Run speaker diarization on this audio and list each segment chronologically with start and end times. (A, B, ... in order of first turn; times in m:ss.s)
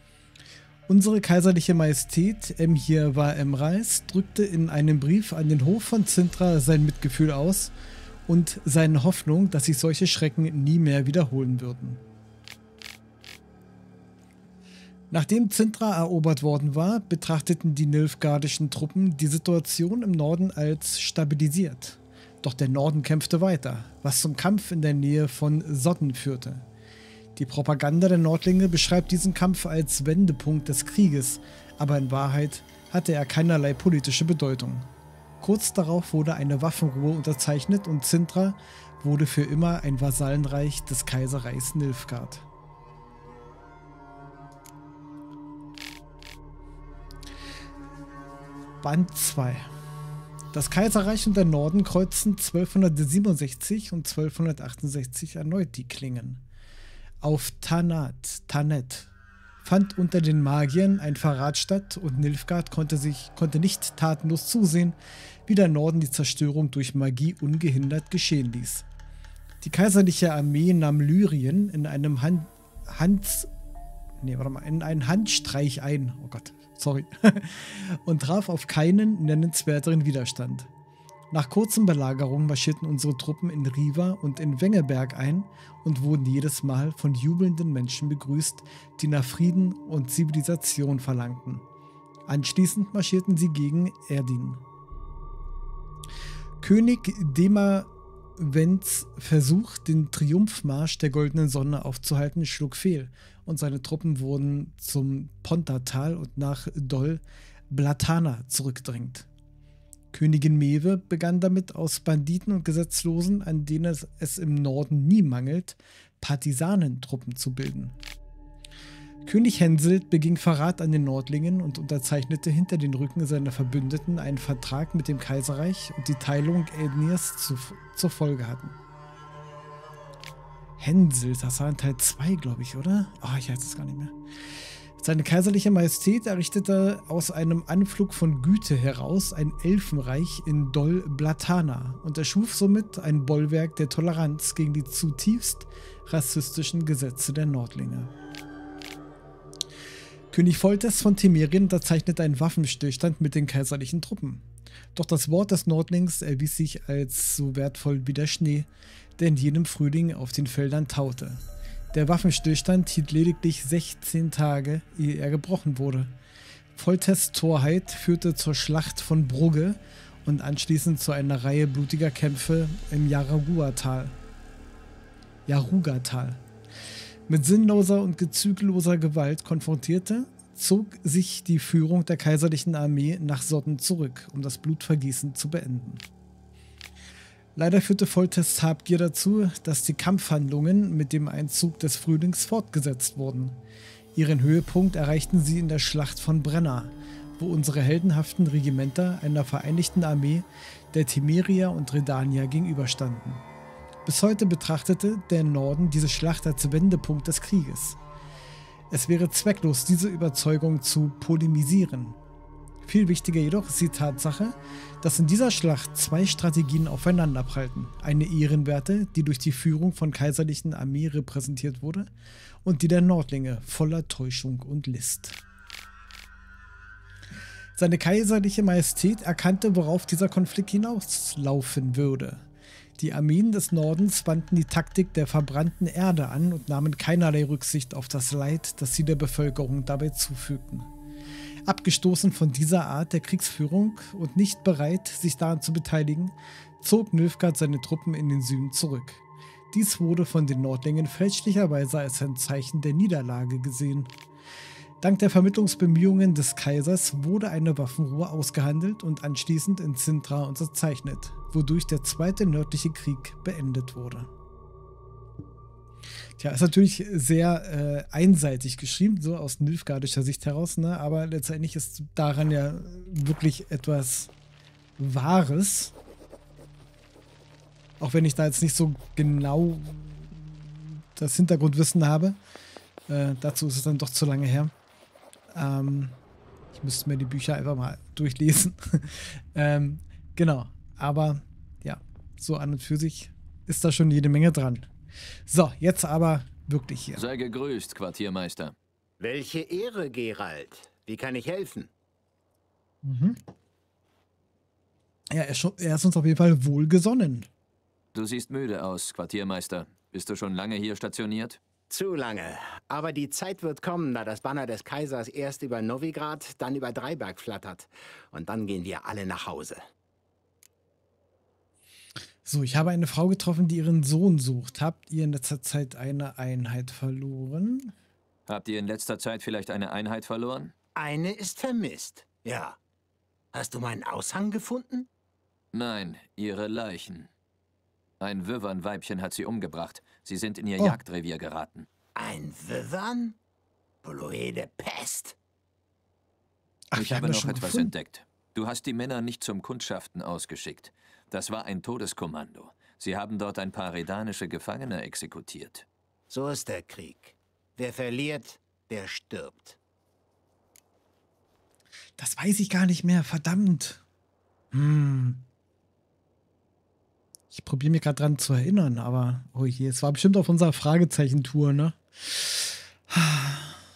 0:00.9-0:07.7 A
0:08.3-0:12.0 A
0:15.1-0:26.6 A
0:27.4-0:34.9 A
0:35.4-0:42.4 A
0:48.8-0:49.7 A
0:50.5-0:56.4 A
0:57.2-0:59.1 A
0:59.6-1:08.8 A
1:09.6-1:13.5 A
1:14.2-1:20.7 A
1:21.3-1:31.6 A
1:32.3-1:34.6 A
1:36.6-1:49.3 A
1:50.1-1:58.0 A
1:59.3-2:08.8 A
2:10.8-2:14.1 A
2:15.0-2:28.1 A
2:30.3-2:34.4 A
2:35.0-2:46.1 A
2:46.8-2:54.2 A
2:55.5-2:56.4 A
2:57.3-3:06.0 A
3:07.6-3:13.6 A
3:14.2-3:23.4 A
3:24.1-3:28.0 A
3:28.9-3:32.2 A
3:32.8-3:42.1 A
3:42.6-3:45.4 A
3:47.8-3:52.4 A
3:53.0-4:00.9 A
4:01.7-4:14.1 A
4:15.0-4:24.3 A
4:26.4-4:34.3 A
4:35.0-4:35.9 A
4:38.0-4:42.4 A
4:43.1-4:44.7 A
4:45.5-4:46.2 A
4:46.7-4:54.9 A
4:55.5-4:57.2 A
4:57.2-4:58.8 B
4:59.2-5:01.9 C
5:03.0-5:03.4 A
5:05.3-5:07.5 A
5:08.1-5:11.6 B
5:11.9-5:19.8 C
5:22.4-5:27.9 A
5:28.5-5:30.7 B
5:31.0-5:32.8 C
5:33.5-5:35.1 C
5:35.7-5:37.3 B
5:38.2-5:41.9 B
5:42.2-5:43.4 C
5:44.0-5:45.4 C
5:46.9-5:47.9 A
5:47.0-5:55.9 B
5:56.3-5:59.8 C
6:02.2-6:04.0 A
6:04.7-6:05.4 A
6:07.5-6:13.7 A